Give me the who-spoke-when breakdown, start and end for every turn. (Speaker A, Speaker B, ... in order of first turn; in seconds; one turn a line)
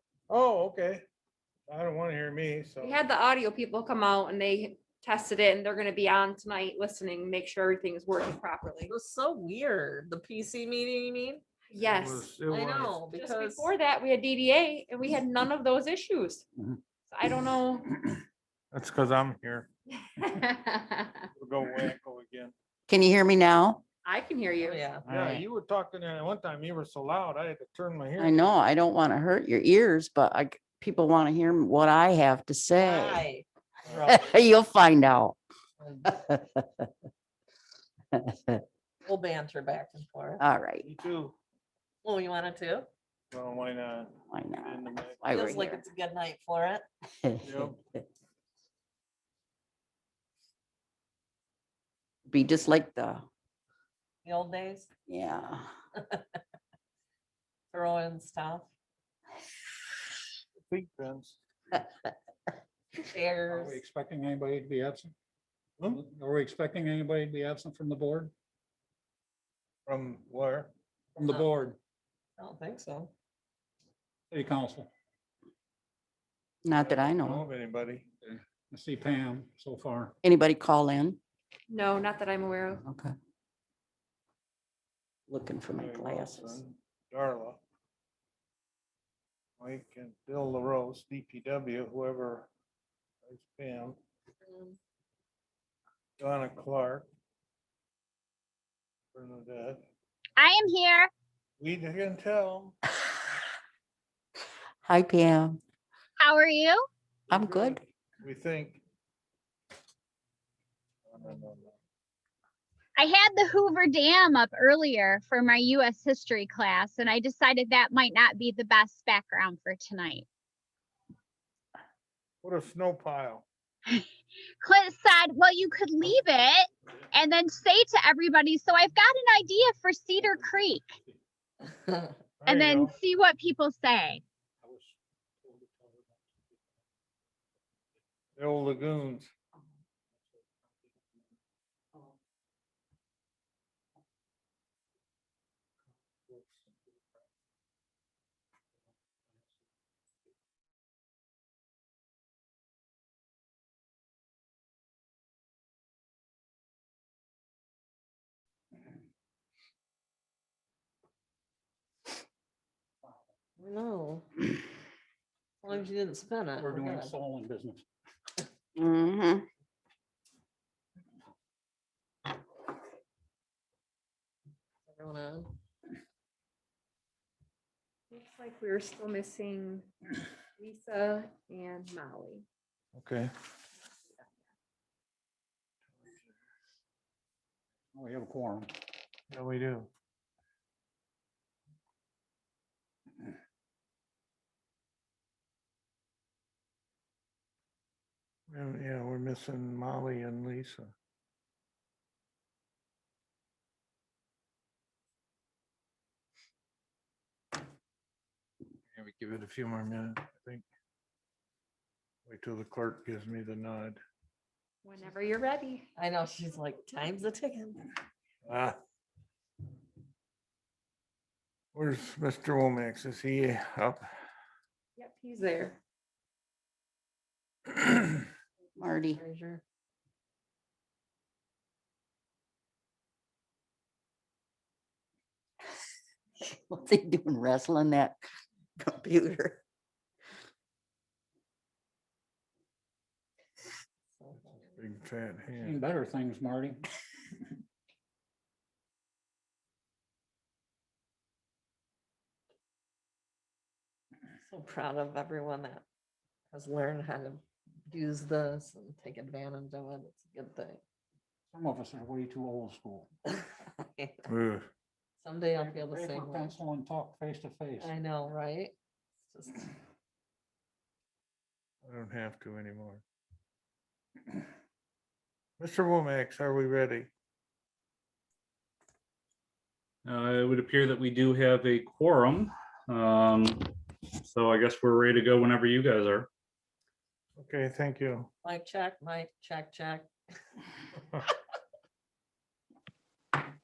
Speaker A: 0.3-1.0
Speaker A: 1.7-3.0
Speaker B: 2.8-8.9
Speaker C: 8.9-11.4
Speaker B: 11.7-12.3
Speaker A: 11.8-13.0
Speaker C: 12.5-13.7
Speaker B: 13.1-16.4
Speaker B: 17.1-17.9
Speaker A: 18.7-19.7
Speaker B: 20.2-21.2
Speaker A: 21.3-22.5
Speaker D: 22.9-23.8
Speaker B: 24.0-24.9
Speaker C: 24.6-25.0
Speaker A: 25.0-28.5
Speaker D: 25.1-25.4
Speaker D: 28.2-33.2
Speaker C: 32.7-34.3
Speaker A: 33.9-34.2
Speaker D: 34.0-35.4
Speaker C: 35.8-36.1
Speaker D: 36.1-36.9
Speaker D: 38.1-38.6
Speaker C: 39.0-40.4
Speaker D: 40.4-40.9
Speaker A: 40.8-41.3
Speaker C: 42.0-42.9
Speaker A: 43.3-45.2
Speaker D: 44.3-45.8
Speaker C: 45.3-46.9
Speaker D: 47.2-47.7
Speaker A: 47.4-47.8
Speaker D: 52.3-53.3
Speaker C: 54.2-54.9
Speaker D: 55.1-55.6
Speaker C: 56.0-56.2
Speaker C: 57.7-58.7
Speaker A: 60.6-61.4
Speaker C: 62.9-63.8
Speaker E: 63.5-65.1
Speaker E: 65.9-68.3
Speaker A: 69.8-70.7
Speaker E: 71.1-71.8
Speaker C: 72.4-73.1
Speaker E: 74.3-74.9
Speaker D: 76.6-77.4
Speaker A: 76.7-78.1
Speaker E: 78.2-80.2
Speaker D: 80.2-81.2
Speaker B: 81.7-82.8
Speaker D: 82.8-83.1
Speaker D: 85.3-86.6
Speaker A: 85.7-87.6
Speaker A: 89.6-92.5
Speaker A: 93.2-94.0
Speaker C: 94.5-94.8
Speaker A: 96.2-97.1
Speaker A: 99.1-99.8
Speaker F: 100.4-101.1
Speaker A: 101.6-102.7
Speaker D: 104.8-105.6
Speaker F: 106.2-106.8
Speaker D: 107.3-107.8
Speaker A: 108.2-108.8
Speaker A: 111.1-111.7
Speaker F: 113.0-120.2
Speaker A: 122.4-123.4
Speaker F: 124.6-130.9
Speaker E: 130.2-131.2
Speaker A: 132.4-132.9
Speaker F: 132.5-134.2
Speaker E: 134.6-136.7
Speaker A: 138.4-139.3
Speaker E: 140.2-140.9
Speaker C: 163.6-164.2
Speaker C: 165.6-167.1
Speaker E: 166.5-167.8
Speaker D: 168.8-169.4
Speaker C: 174.8-175.5
Speaker B: 178.1-179.9
Speaker B: 180.6-182.4
Speaker A: 182.9-183.3
Speaker E: 187.9-188.7
Speaker A: 189.3-189.9
Speaker A: 198.5-200.9
Speaker A: 208.9-210.6
Speaker A: 212.3-214.0
Speaker B: 214.8-215.8
Speaker C: 215.9-217.9
Speaker A: 218.4-218.8
Speaker A: 221.7-224.0
Speaker B: 225.0-225.8
Speaker D: 228.8-229.2
Speaker C: 229.1-229.6
Speaker D: 236.4-238.2
Speaker D: 238.8-239.6
Speaker C: 244.1-244.7
Speaker A: 244.8-245.8
Speaker E: 245.5-246.8
Speaker C: 254.4-255.8
Speaker C: 256.5-260.8
Speaker E: 261.5-263.1
Speaker C: 263.4-264.2
Speaker A: 264.3-264.7
Speaker C: 265.2-266.6
Speaker E: 265.5-268.0
Speaker C: 267.8-269.7
Speaker A: 271.8-273.0
Speaker A: 275.6-277.1
Speaker G: 280.0-286.3
Speaker A: 287.4-288.3
Speaker C: 288.4-290.1